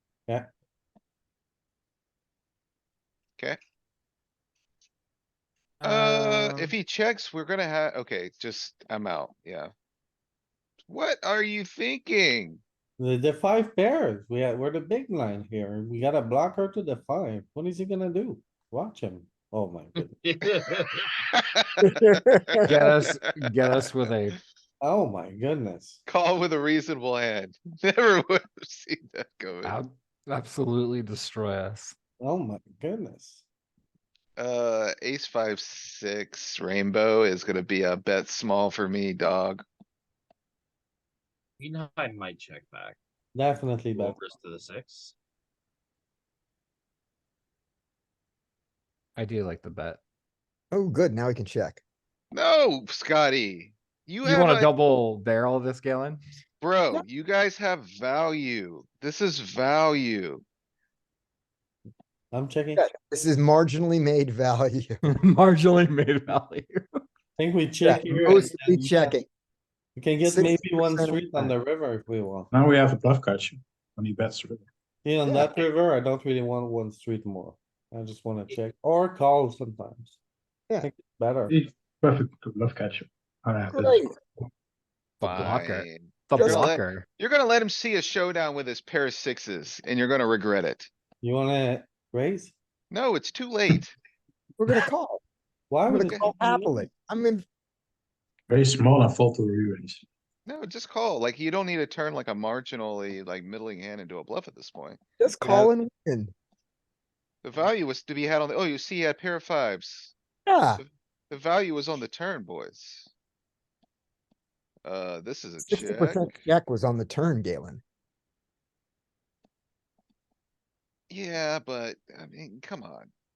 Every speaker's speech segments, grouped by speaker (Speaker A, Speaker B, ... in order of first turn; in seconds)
Speaker A: 5.8-6.7, 22.6-24.4, 29.6-31.9, 49.1-50.0, 54.2-56.2, 65.0-67.0, 85.2-87.0
Speaker B: 5.8-9.7, 10.9-12.6, 21.3-23.8, 26.1-29.7, 34.4-39.6, 52.3-54.7, 56.6-60.4, 85.2-90.9, 92.9-93.9, 96.0-96.3, 100.5-105.0, 107.4-110.1, 110.8-113.1, 114.8-116.4, 121.1-123.1
Speaker C: 13.0-20.2, 24.8-26.0, 32.2-33.4, 43.3-44.2, 62.3-62.9, 67.4-69.2, 70.0-72.5, 75.0-80.2, 80.8-81.5, 91.2-92.5, 95.7-96.8, 105.4-105.7
Speaker D: 20.2-21.2, 41.6-43.0, 43.9-45.1
Speaker E: 21.8-22.8, 50.7-51.8, 62.8-65.0, 67.8-69.3, 70.2-71.5, 75.2-75.6, 83.7-84.1, 86.3-86.7, 94.6-95.2, 95.9-97.4, 105.2-106.3, 110.5-110.8, 115.7-117.8
Speaker F: 68.1-68.4, 72.5-74.7, 81.5-84.1, 98.5-100.0